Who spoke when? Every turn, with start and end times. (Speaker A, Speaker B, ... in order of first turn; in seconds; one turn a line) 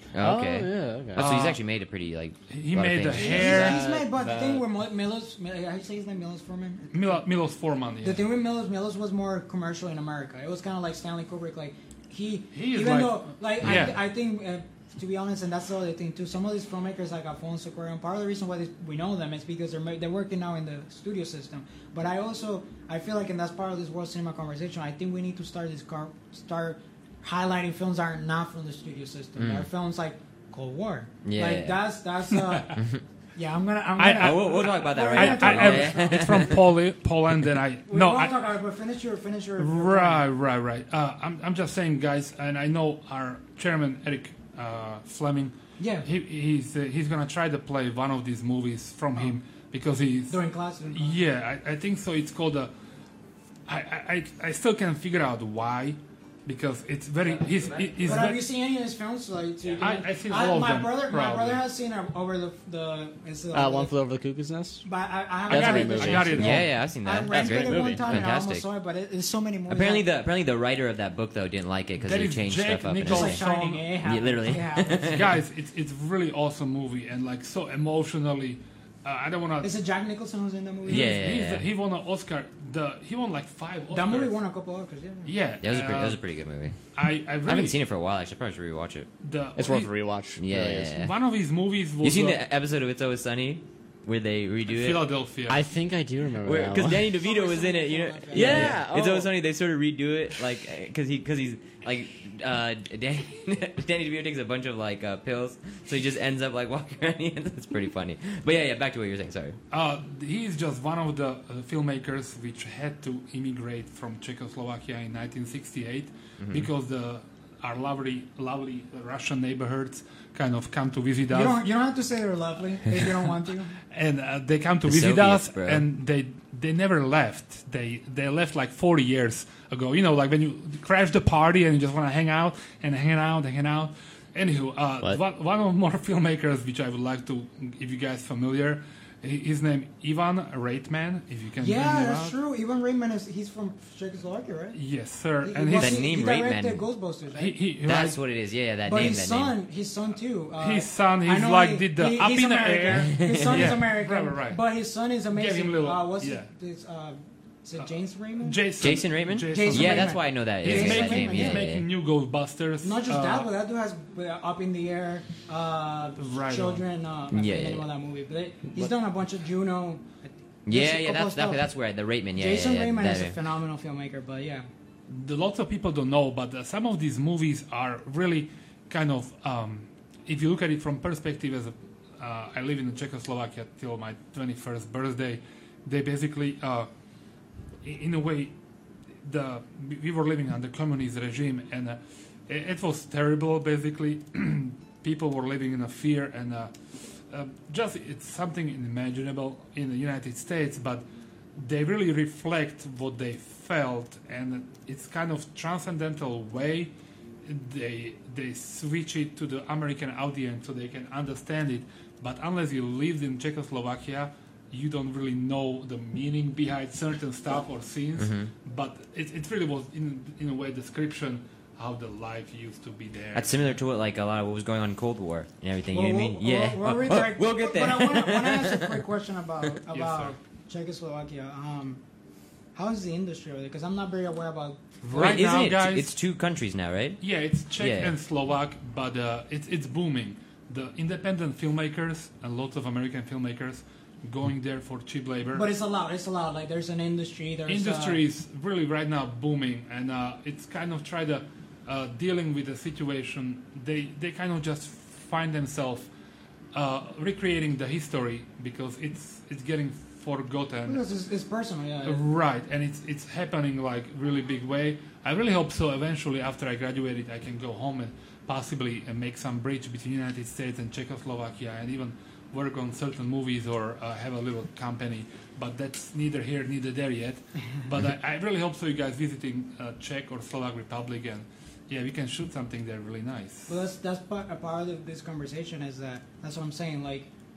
Speaker A: 0.1-3.8
Speaker B: 0.2-1.2
Speaker C: 1.1-1.6
Speaker C: 2.5-3.8
Speaker D: 3.1-7.2
Speaker B: 3.4-4.7
Speaker C: 6.9-8.2
Speaker D: 8.0-32.8
Speaker C: 12.5-14.0
Speaker A: 29.4-29.6
Speaker A: 31.2-31.8
Speaker A: 32.8-33.0
Speaker D: 33.4-36.5
Speaker C: 34.0-38.4
Speaker A: 34.2-36.6
Speaker D: 37.9-40.2
Speaker C: 39.6-52.7
Speaker D: 45.8-46.1
Speaker D: 50.3-51.1
Speaker C: 53.7-58.4
Speaker A: 57.2-58.3
Speaker D: 58.0-63.9
Speaker C: 59.8-61.6
Speaker B: 63.5-64.8
Speaker D: 64.8-70.1
Speaker B: 65.5-66.5
Speaker C: 65.5-66.7
Speaker A: 66.3-68.7
Speaker B: 67.5-68.2
Speaker A: 69.7-73.4
Speaker C: 72.0-73.9
Speaker D: 73.0-75.2
Speaker A: 74.0-75.3
Speaker C: 75.1-79.7
Speaker D: 79.6-81.2
Speaker C: 80.8-84.4
Speaker A: 80.9-81.6
Speaker D: 83.9-85.3
Speaker C: 85.2-86.2
Speaker A: 85.6-86.8
Speaker C: 86.9-87.8
Speaker A: 87.4-89.1
Speaker C: 89.2-89.9
Speaker B: 89.5-91.0
Speaker A: 90.4-91.1
Speaker C: 91.0-92.4
Speaker A: 92.0-95.0
Speaker C: 94.7-95.6
Speaker B: 95.5-97.1
Speaker A: 96.4-109.6
Speaker D: 97.2-98.7
Speaker B: 98.3-99.3
Speaker C: 109.7-121.6
Speaker A: 116.4-116.7
Speaker D: 121.3-123.8
Speaker C: 123.9-142.3
Speaker A: 124.9-125.8
Speaker D: 141.6-144.8
Speaker C: 144.7-146.1
Speaker D: 145.4-147.5
Speaker A: 145.8-146.8
Speaker C: 147.3-148.2
Speaker A: 147.8-149.5
Speaker D: 148.8-158.6
Speaker C: 150.6-154.6
Speaker A: 153.2-153.7
Speaker C: 155.3-156.5
Speaker C: 158.4-163.5
Speaker A: 158.8-161.8
Speaker D: 159.5-161.7
Speaker D: 162.8-171.6
Speaker C: 166.2-166.8
Speaker A: 167.3-167.8
Speaker A: 170.7-173.3
Speaker D: 172.3-174.7
Speaker C: 175.1-186.9
Speaker C: 187.8-188.5
Speaker C: 189.2-201.0
Speaker C: 201.6-206.9
Speaker C: 207.4-223.6
Speaker A: 218.2-218.5
Speaker A: 223.3-229.0
Speaker D: 225.9-232.0
Speaker C: 229.9-230.3
Speaker D: 232.7-235.4
Speaker C: 235.0-236.1
Speaker A: 235.1-238.1
Speaker C: 237.2-245.7
Speaker D: 245.5-248.2
Speaker C: 247.7-256.1
Speaker C: 256.7-261.0
Speaker D: 260.9-262.2
Speaker C: 262.0-283.8
Speaker D: 283.7-287.3